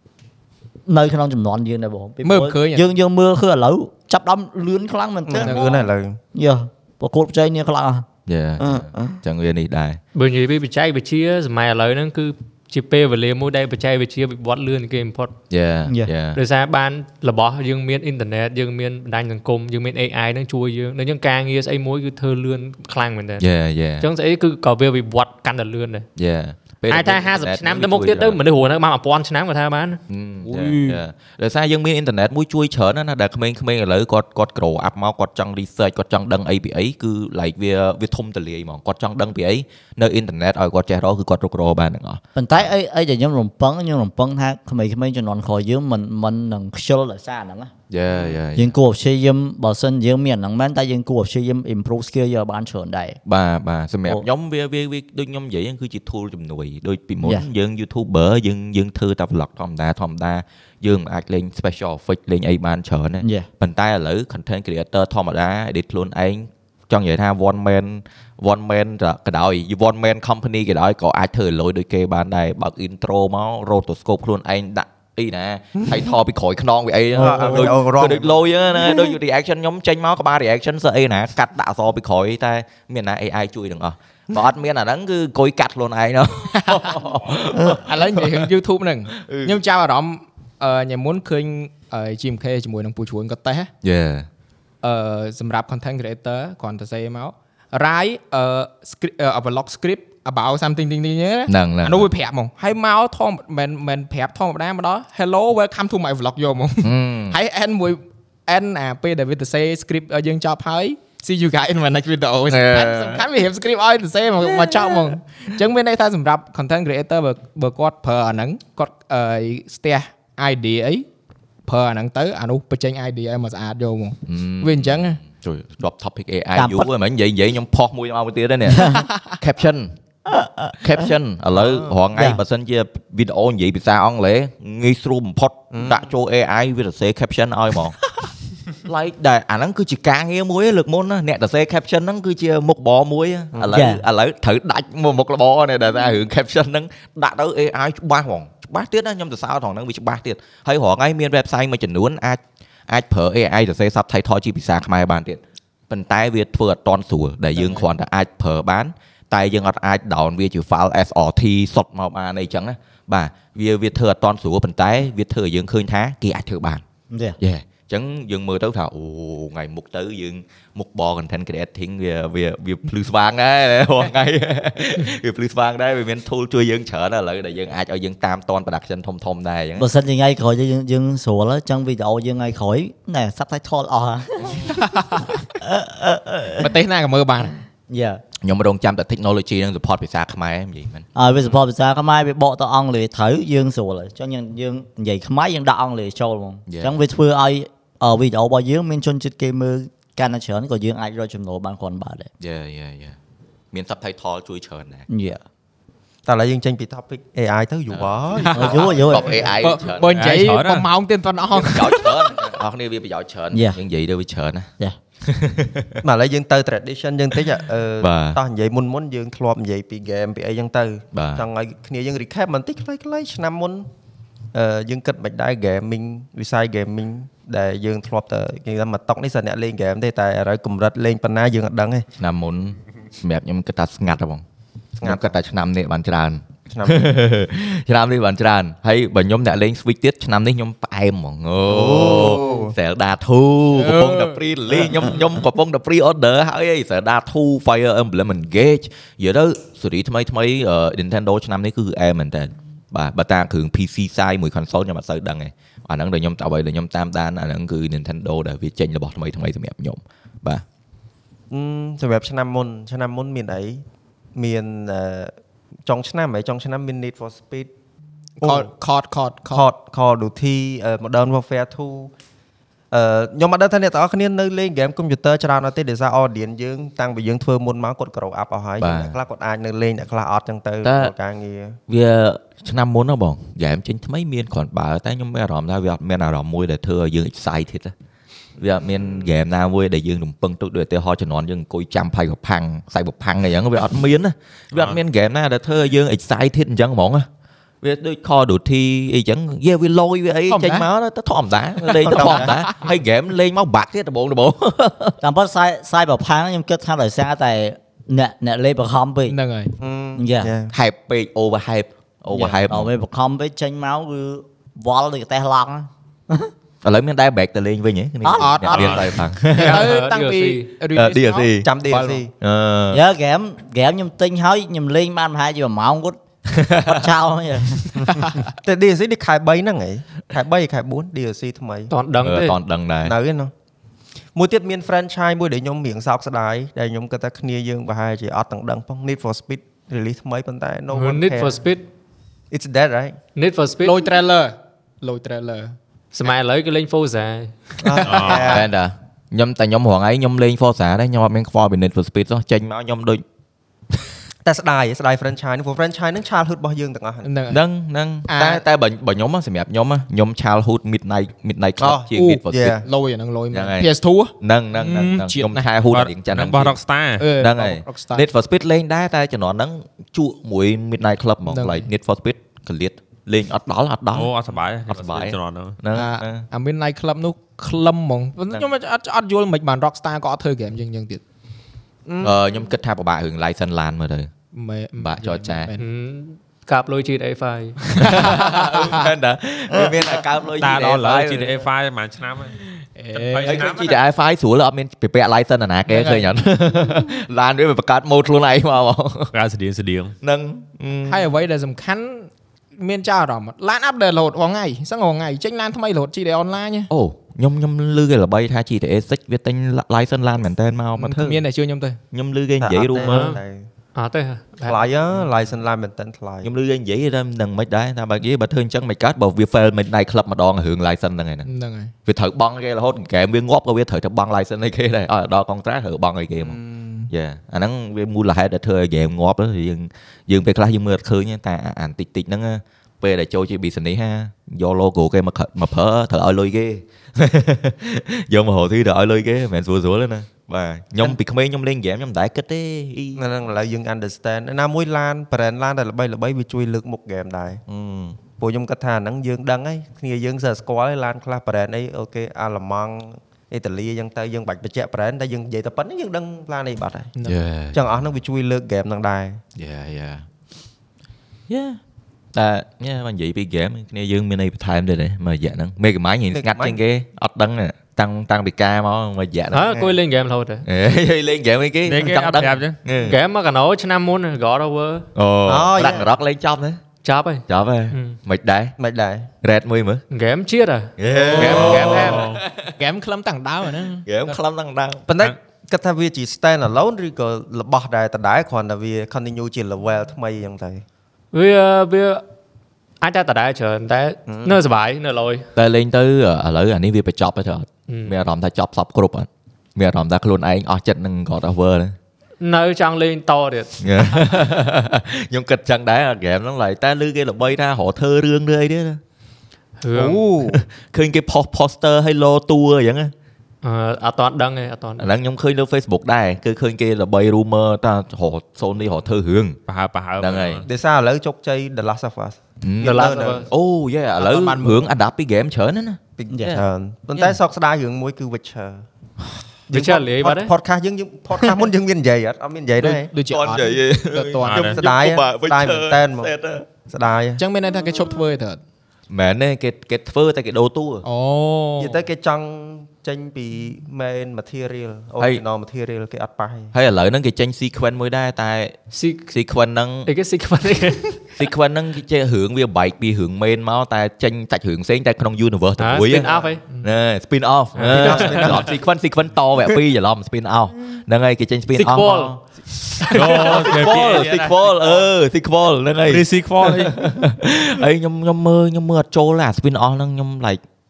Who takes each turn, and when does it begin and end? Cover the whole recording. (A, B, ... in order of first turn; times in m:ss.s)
0:00.8-0:05.8 A
0:02.2-0:02.8 B
0:05.3-0:06.2 C
0:05.4-0:05.9 B
0:06.3-0:08.1 A
0:08.3-0:10.0 D
0:08.6-0:09.2 A
0:10.1-0:15.3 E
0:15.5-0:16.4 D
0:15.8-0:16.1 A
0:16.3-0:23.4 E
0:23.4-0:24.1 D
0:24.0-0:26.1 E
0:26.2-0:28.4 D
0:26.9-0:30.0 E
0:30.1-0:42.6 D
0:30.5-0:31.0 F
0:42.3-0:47.7 A
0:47.9-0:48.7 D
0:48.5-0:53.2 A
0:53.2-1:28.4 D
1:03.2-1:03.5 A
1:17.1-1:18.4 C
1:17.1-1:17.8 A
1:26.6-1:27.0 B
1:27.5-1:33.7 B
1:29.1-1:29.6 D
1:33.8-1:34.3 D
1:34.8-2:01.0 B
1:41.5-1:42.1 D
1:46.8-1:47.4 D
1:52.5-1:53.2 D
2:01.6-2:05.2 B
2:04.3-2:09.9 D
2:06.5-2:06.9 A
2:08.7-2:09.0 A
2:10.3-2:11.1 A
2:10.8-2:18.0 D
2:11.6-2:11.8 C
2:12.1-2:12.4 A
2:15.7-2:16.0 C
2:18.8-2:46.8 D
2:23.7-2:24.0 A
2:47.1-2:47.4 A
2:47.4-2:59.9 D
2:59.8-3:06.7 A
3:04.7-3:05.4 B
3:06.6-3:07.6 B
3:07.9-3:08.2 A
3:08.4-3:11.1 D
3:11.1-3:22.3 A
3:16.7-3:16.9 D
3:22.4-3:23.2 D
3:23.7-3:25.1 D
3:25.1-3:25.4 A
3:26.2-3:29.2 C
3:27.9-3:30.2 D
3:28.5-3:29.4 A
3:28.5-3:32.4 B
3:30.1-3:30.9 F
3:31.5-3:34.7 D
3:33.5-3:33.8 A
3:35.2-3:36.0 D
3:36.0-3:43.9 C
3:38.0-3:38.4 D
3:41.1-3:41.5 D
3:44.5-3:52.0 C
3:52.2-3:54.4 D
3:55.0-3:55.3 C
3:55.0-4:20.6 D
3:56.7-3:57.1 C
4:01.6-4:02.7 C
4:03.7-4:04.4 B
4:21.5-4:23.8 C
4:24.3-4:25.3 C
4:25.8-4:27.7 C
4:28.4-4:29.6 B
4:28.4-4:28.7 C
4:29.5-4:32.1 C
4:32.9-4:41.8 C
4:38.8-4:39.2 D
4:40.8-4:41.1 D
4:41.9-4:47.9 D
4:48.6-4:57.3 D
4:48.8-4:49.3 C
4:54.7-4:55.0 F
4:57.8-5:05.2 D
5:00.5-5:00.9 B
5:02.0-5:02.7 B
5:02.1-5:02.5 C
5:05.2-5:09.4 A
5:09.3-5:09.7 B
5:09.8-5:10.7 C
5:10.2-5:10.5 A
5:10.7-5:12.9 D
5:12.3-5:16.5 A
5:16.8-5:19.9 D
5:18.2-5:19.1 A
5:18.3-5:22.2 B
5:18.7-5:19.0 F
5:19.5-5:20.8 E
5:20.9-5:21.7 D
5:21.6-5:22.3 C
5:22.4-5:23.0 D
5:22.9-5:26.2 A
5:26.5-5:26.9 D
5:26.7-5:28.1 A
5:28.2-5:28.4 B
5:28.6-5:31.9 C
5:31.9-5:32.6 E
5:32.2-5:33.1 D
5:33.0-5:33.5 C
5:34.3-5:41.6 C
5:40.9-5:41.8 E
5:42.5-5:43.2 C
5:43.4-5:44.0 E
5:43.8-5:45.7 B
5:46.1-5:47.8 E
5:47.8-5:48.7 C
5:48.0-5:48.6 F
5:48.2-5:53.2 D
5:54.4-5:57.3 C
5:57.2-5:57.6 B
5:57.5-6:02.8 D
5:58.3-5:58.6 B
6:01.8-6:02.8 C
6:02.1-6:05.7 B
6:03.5-6:06.8 D
6:05.9-6:07.3 F
6:07.2-6:08.2 B
6:07.4-6:14.3 D
6:11.4-6:11.9 B
6:14.1-6:15.8 F
6:14.9-6:16.4 D
6:15.9-6:21.2 B
6:22.0-6:22.3 C
6:22.2-6:24.3 D
6:24.5-6:25.9 B
6:25.0-6:25.7 D
6:25.8-6:27.8 E
6:27.8-6:29.1 B
6:28.0-6:31.6 D
6:30.6-6:32.6 F
6:32.9-6:33.7 B
6:33.1-6:34.0 F
6:33.5-6:39.3 D
6:35.9-6:36.3 B
6:39.3-6:40.1 F
6:40.2-6:41.2 D
6:40.8-6:46.9 B
6:46.9-6:51.4 D
6:51.0-6:52.0 B
6:52.1-6:53.3 D
6:52.6-6:53.7 C
6:53.0-6:53.4 E
6:53.9-6:54.8 E
6:54.6-6:56.5 C
6:56.4-7:01.5 D
7:01.4-7:01.9 B
7:02.0-7:06.6 D
7:06.5-7:06.8 C
7:07.1-7:23.2 D
7:23.2-7:27.6 C
7:27.7-7:28.2 D
7:28.4-7:37.1 C
7:37.2-7:37.8 D
7:37.7-7:39.4 C
7:39.6-7:40.2 D
7:41.5-7:41.8 D
7:42.3-7:49.9 D
7:46.3-7:46.8 C
7:49.5-7:50.6 E
7:50.6-7:53.2 D
7:51.8-7:52.8 F
7:53.1-7:55.1 E
7:55.2-7:56.8 D
7:55.4-7:56.1 C
7:57.0-7:58.2 E
7:57.5-7:58.7 D
7:58.8-7:59.3 C
7:59.4-8:00.0 D
8:00.1-8:02.2 E
8:01.0-8:02.5 D
8:01.1-8:04.4 B
8:01.2-8:02.1 C
8:01.6-8:02.4 F
8:04.0-8:05.0 D
8:05.1-8:10.8 C
8:11.3-8:12.2 E
8:13.0-8:15.5 E
8:14.3-8:14.6 C
8:15.6-8:21.9 D
8:17.9-8:18.2 E
8:22.4-8:24.3 E
8:23.8-8:29.0 D
8:29.8-8:30.2 E
8:29.9-8:30.6 C
8:30.4-8:33.1 D
8:33.6-8:35.1 E
8:35.0-8:39.6 D
8:39.7-8:40.6 F
8:40.2-8:40.6 D
8:40.6-8:43.5 C
8:42.6-8:46.6 D
8:42.8-8:43.5 E
8:44.2-8:44.9 B
8:46.2-8:48.8 C
8:46.3-8:46.6 A
8:49.7-8:50.5 E
8:49.7-8:53.1 C
8:52.8-8:54.8 B
8:53.2-8:56.6 D
8:54.4-8:54.8 F
8:54.6-8:56.3 C
8:56.8-8:57.4 C
8:57.4-8:58.6 B
8:59.1-9:01.0 D
9:01.0-9:02.0 B
9:01.8-9:06.7 C
9:06.7-9:08.8 D
9:08.9-9:09.3 E
9:09.3-9:10.1 D
9:10.0-9:11.4 E
9:11.4-9:30.6 D
9:15.8-9:16.6 E
9:16.2-9:16.5 C
9:17.8-9:18.6 E
9:17.8-9:18.8 C
9:21.7-9:22.3 E
9:23.0-9:24.0 E
9:23.1-9:25.0 F
9:26.1-9:27.0 F